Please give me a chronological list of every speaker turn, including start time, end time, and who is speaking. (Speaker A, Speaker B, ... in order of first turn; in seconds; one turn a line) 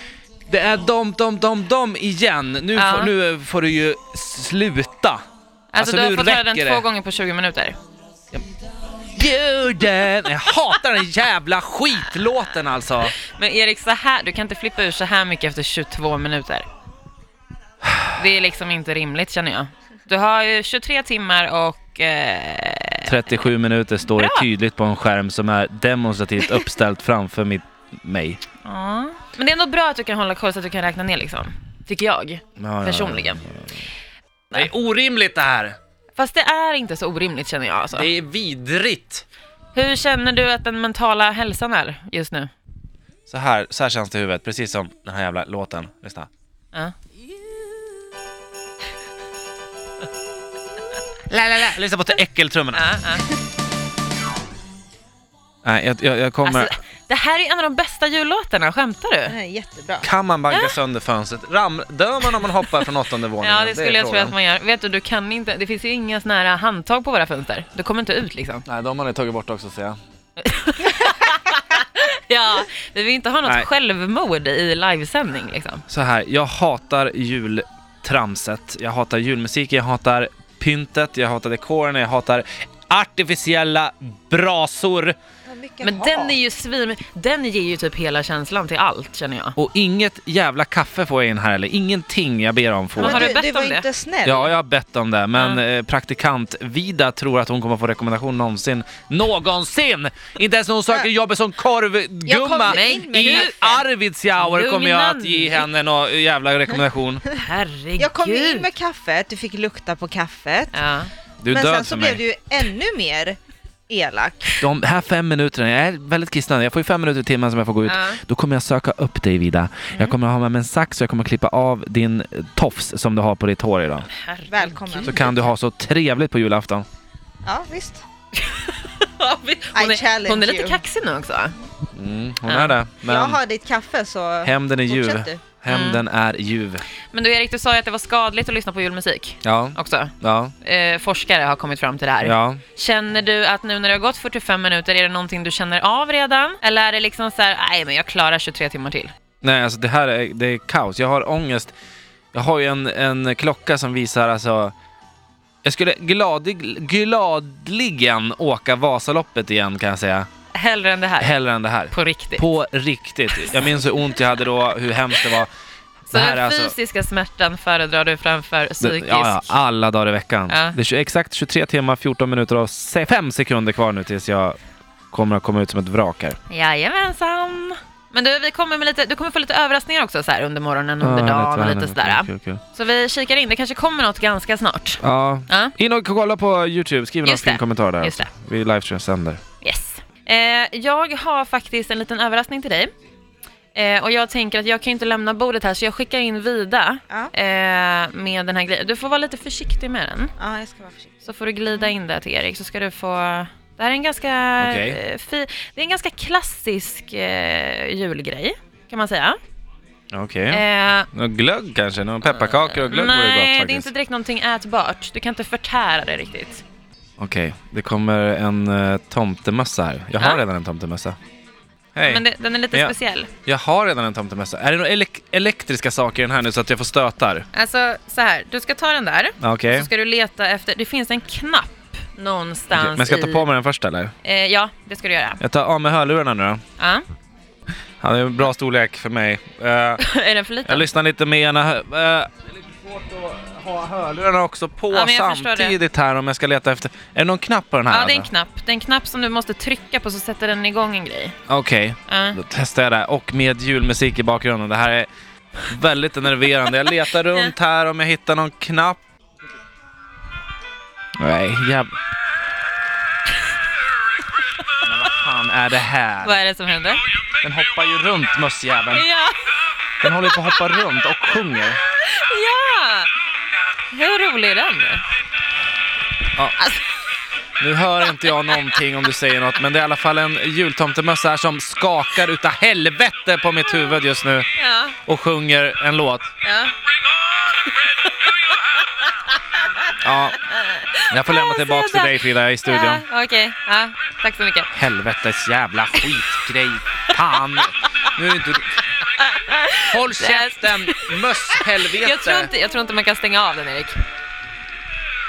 Speaker A: 0.5-5.2
Speaker B: 2.8-3.1
Speaker B: 5.7-7.8
Speaker A: 5.8-6.8
Speaker A: 9.1-13.1
Speaker B: 13.2-16.7
Speaker B: 18.1-23.1
Speaker A: 23.1-28.4
Speaker B: 24.1-24.5
Speaker B: 28.6-33.4
Speaker A: 32.6-33.6
Speaker A: 34.5-35.8
Speaker B: 36.1-38.1
Speaker A: 37.9-39.2
Speaker B: 39.7-42.5
Speaker A: 43.3-46.3
Speaker A: 51.3-53.0
Speaker B: 52.7-53.3
Speaker A: 55.6-56.7
Speaker B: 56.5-59.3
Speaker C: 59.3-60.1
Speaker A: 60.0-64.3
Speaker B: 63.4-68.7
Speaker A: 68.7-70.0
Speaker B: 70.4-75.8
Speaker A: 75.9-85.2
Speaker C: 85.5-86.4
Speaker B: 85.8-89.6
Speaker A: 89.6-93.3
Speaker B: 93.0-93.8
Speaker C: 93.0-94.4
Speaker A: 94.2-107.2
Speaker B: 95.3-95.6
Speaker C: 102.3-103.8
Speaker B: 102.7-103.8
Speaker B: 104.4-105.7
Speaker B: 107.4-108.7
Speaker C: 108.0-110.8
Speaker B: 110.7-111.1
Speaker A: 111.4-112.2
Speaker C: 111.5-113.4
Speaker C: 113.9-114.6
Speaker A: 114.6-124.1
Speaker B: 117.9-118.2
Speaker B: 124.1-125.3
Speaker C: 124.5-125.0
Speaker A: 125.0-126.8
Speaker C: 127.4-128.0
Speaker B: 128.4-131.5
Speaker C: 129.7-130.8
Speaker A: 131.9-133.4
Speaker B: 132.5-132.8
Speaker C: 133.1-135.4
Speaker A: 134.4-136.8
Speaker B: 135.7-136.0
Speaker B: 137.1-149.1
Speaker A: 139.4-140.5
Speaker A: 142.2-142.6
Speaker A: 149.4-151.7
Speaker A: 152.3-154.7
Speaker A: 155.6-160.3
Speaker B: 160.5-161.3
Speaker A: 161.2-165.5
Speaker B: 161.9-162.4
Speaker B: 166.1-169.6
Speaker A: 166.1-166.8
Speaker A: 168.8-174.6
Speaker B: 170.5-170.8
Speaker A: 175.1-176.4
Speaker B: 176.5-185.7
Speaker A: 181.0-182.6
Speaker A: 185.0-189.4
Speaker B: 187.2-188.3
Speaker B: 189.6-192.9
Speaker B: 193.8-200.3
Speaker C: 200.4-201.1
Speaker B: 201.2-209.4
Speaker A: 204.6-205.0
Speaker A: 210.1-213.9
Speaker B: 210.5-211.1
Speaker B: 212.2-216.6
Speaker A: 217.2-221.2
Speaker B: 220.2-220.4
Speaker A: 221.9-222.9
Speaker B: 222.0-223.3
Speaker A: 223.5-227.5
Speaker B: 227.5-233.5
Speaker A: 229.4-229.9
Speaker A: 232.7-234.1
Speaker B: 234.2-235.4
Speaker A: 235.4-236.6
Speaker B: 236.8-237.1
Speaker A: 238.0-240.0
Speaker B: 240.0-240.9
Speaker A: 240.7-248.3
Speaker B: 244.9-245.8
Speaker B: 247.9-251.4
Speaker A: 251.5-255.1
Speaker B: 252.1-252.4
Speaker A: 255.7-259.0
Speaker A: 261.2-261.9
Speaker A: 264.8-266.4
Speaker B: 266.2-267.0
Speaker A: 267.4-269.1
Speaker B: 268.9-270.6
Speaker A: 270.0-271.8
Speaker B: 272.0-273.1
Speaker B: 273.9-275.0
Speaker A: 277.6-284.5
Speaker B: 284.6-285.0
Speaker A: 285.1-286.3
Speaker B: 286.4-286.7
Speaker A: 290.0-290.4
Speaker B: 290.5-294.7
Speaker A: 291.1-293.0
Speaker A: 294.7-298.8
Speaker B: 299.2-304.0
Speaker A: 299.8-302.5